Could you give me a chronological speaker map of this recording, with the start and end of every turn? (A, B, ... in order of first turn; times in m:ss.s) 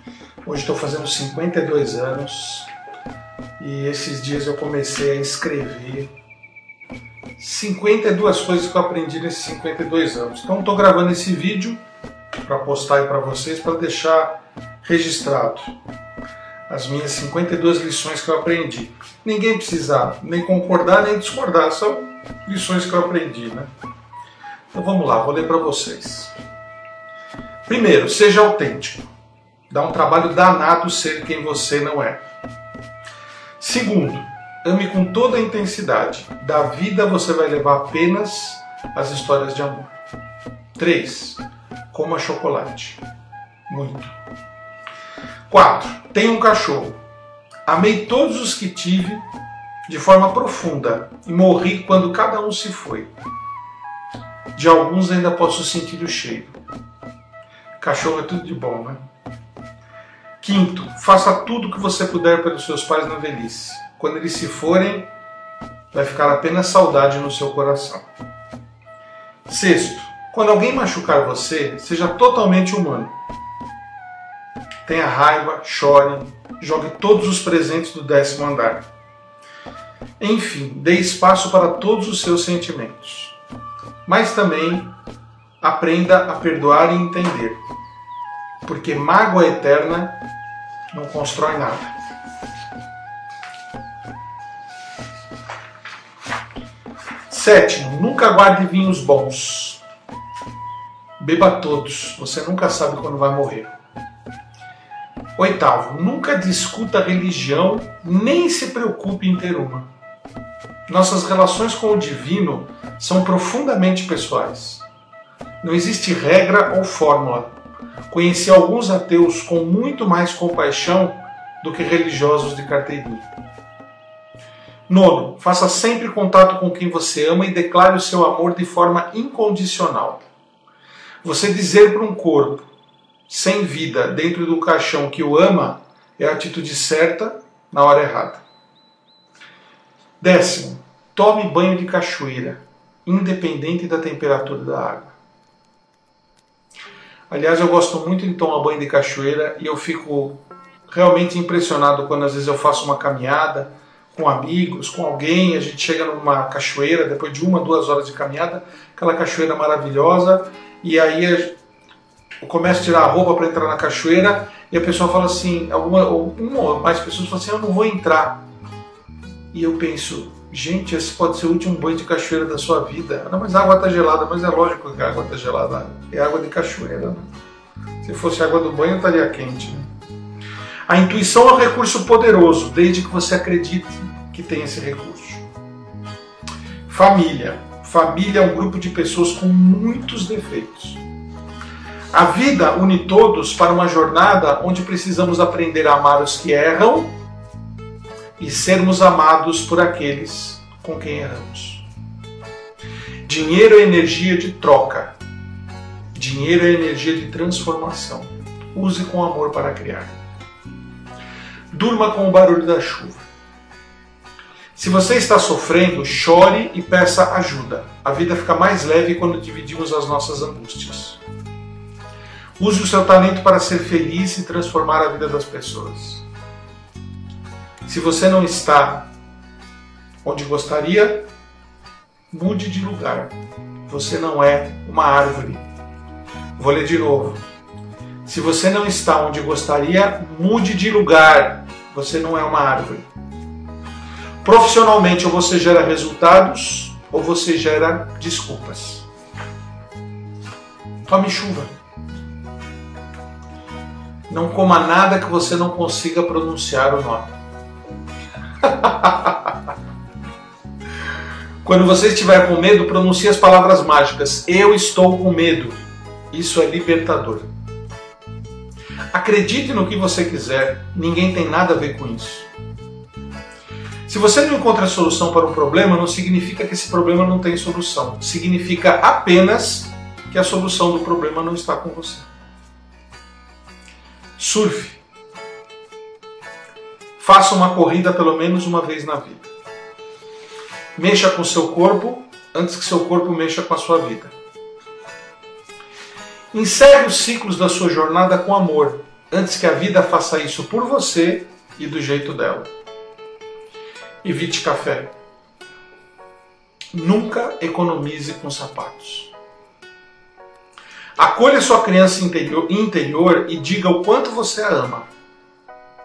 0:00.4-0:02.7 A
0:03.6-0:06.1 A
0:07.4-0:11.8 A
0:12.4-0:15.7 A
0:16.7-0:23.7 A
0:24.7-0:26.3 A
0:27.6-0:29.1 A
0:29.7-0:32.2 A
0:33.6-0:39.9 A
0:40.8-0:41.4 A
0:41.9-0:43.0 A
0:43.7-0:44.1 A
0:45.5-0:47.0 A
0:47.6-0:49.2 A
0:49.8-0:53.1 A
0:54.5-0:56.6 A
0:57.8-0:59.0 A
1:00.4-1:05.1 A
1:05.9-1:08.0 A
1:09.4-1:13.1 A
1:14.8-1:18.9 A
1:20.2-1:23.4 A
1:24.0-1:24.9 A
1:25.6-1:27.6 A
1:28.6-1:30.2 A
1:30.9-1:31.9 A
1:37.3-1:39.8 A
1:41.2-1:43.7 A
1:45.4-1:49.9 A
1:50.9-1:54.8 A
1:55.6-1:57.5 A
1:58.1-2:03.3 A
2:04.9-2:10.3 A
2:11.2-2:12.7 A
2:13.3-2:18.4 A
2:20.2-2:25.1 A
2:27.3-2:41.6 A
2:42.4-2:48.4 A
2:49.5-2:57.3 A
2:58.0-2:59.9 A
3:00.9-3:05.4 A
3:06.8-3:11.0 A
3:12.1-3:17.1 A
3:18.4-3:21.8 A
3:23.2-3:25.2 A
3:26.1-3:30.1 A
3:31.7-3:33.2 A
3:34.7-3:41.2 A
3:42.6-3:46.2 A
3:47.8-3:49.1 A
3:50.2-3:51.3 A
3:52.3-3:53.3 A
3:53.8-3:55.6 A
3:56.6-3:57.4 A
3:58.2-4:03.1 A
4:04.4-4:09.0 A
4:11.0-4:11.7 A
4:14.3-4:17.3 A
4:18.6-4:19.5 A
4:21.6-4:25.8 A
4:26.3-4:27.5 A
4:29.1-4:32.5 A
4:34.1-4:42.2 A
4:44.4-4:45.0 A
4:47.2-4:49.5 A
4:51.0-4:54.3 A
4:56.5-5:02.7 A
5:04.2-5:05.1 A
5:06.9-5:09.3 A
5:11.2-5:15.1 A